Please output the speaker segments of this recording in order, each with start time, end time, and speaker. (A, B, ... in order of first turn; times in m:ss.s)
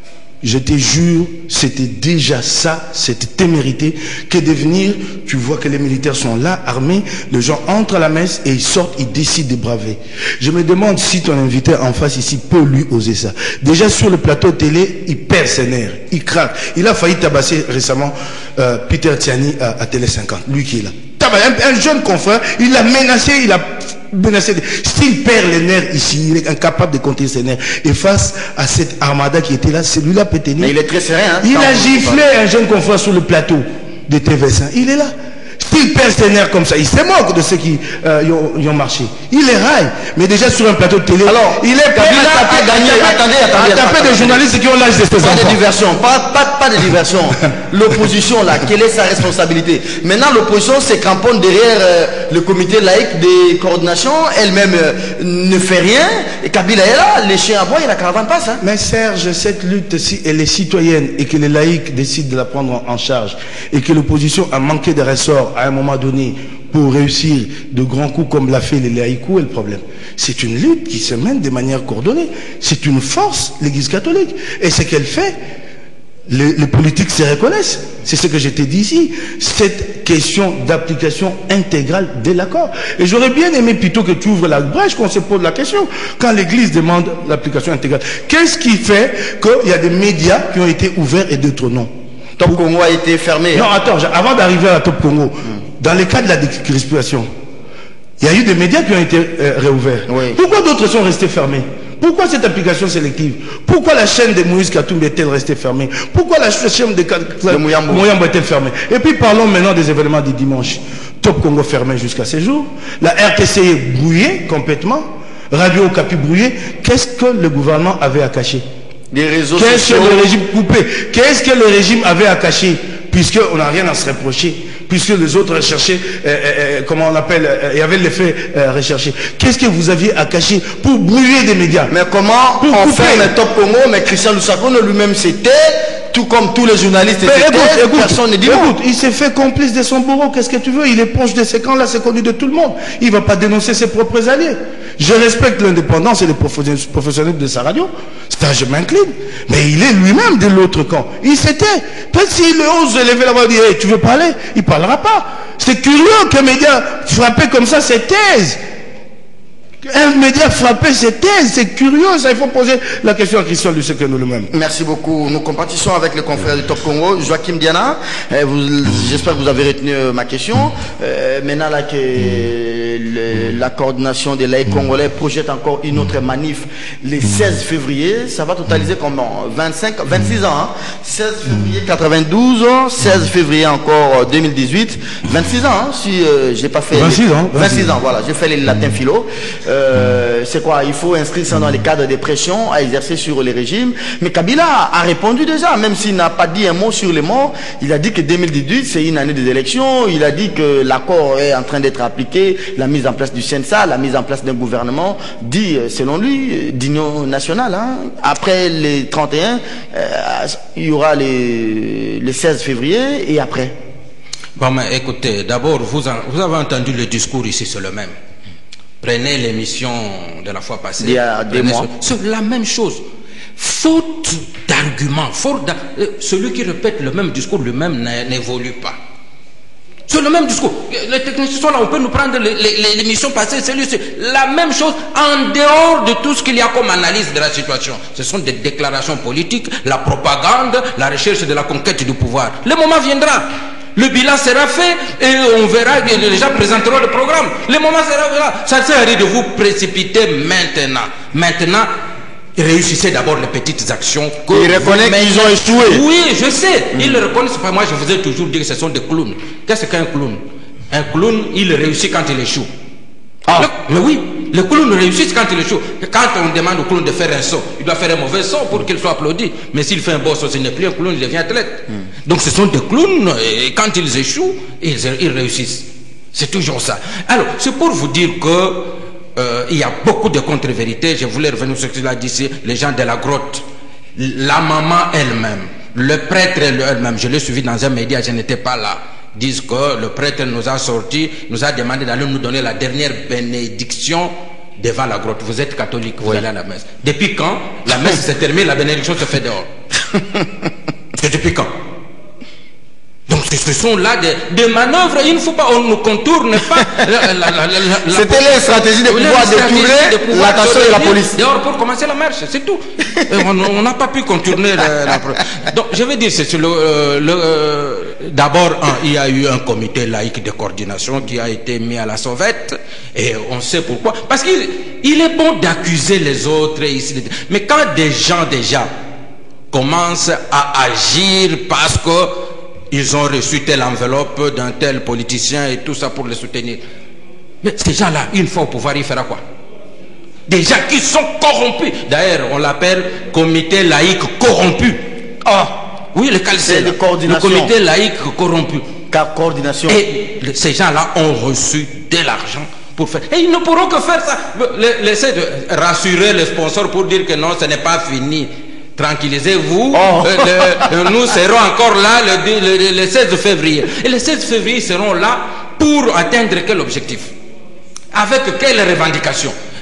0:00.4-0:30.7 A
0:30.6-0:32.2 B
0:31.4-0:45.6 A
0:41.2-0:44.4 B
0:45.2-0:58.6 B
0:58.6-1:15.3 A
1:16.3-1:31.9 A
1:32.4-1:33.6 B
1:33.5-1:37.3 A
1:38.2-1:58.6 A
1:40.1-1:40.4 B
1:47.5-1:48.0 B
1:59.1-2:00.3 B
1:59.6-2:11.9 A
2:11.9-2:18.7 B
2:12.6-2:13.3 A
2:17.2-2:38.6 A
2:39.8-2:44.5 A
2:44.5-3:33.8 B
3:06.9-3:07.9 A
3:34.6-3:38.1 C
3:39.0-3:43.0 C
3:41.0-3:41.9 B
3:43.6-3:49.0 C
3:50.1-4:11.9 C
4:12.6-4:22.7 C
4:14.5-4:16.0 B
4:23.6-4:43.6 C
4:44.2-4:59.7 C
5:00.1-5:00.4 B
5:01.2-5:01.7 C
5:03.3-5:08.5 C
5:08.1-5:11.4 B
5:09.0-5:28.9 C
5:29.7-5:36.8 C
5:37.6-5:39.4 C
5:40.5-5:45.0 C
5:45.4-5:45.8 B
5:46.1-5:48.9 C
5:46.6-5:47.7 B
5:49.1-5:50.0 B
5:49.9-6:07.3 C
5:59.9-6:00.9 B
6:08.1-6:09.5 C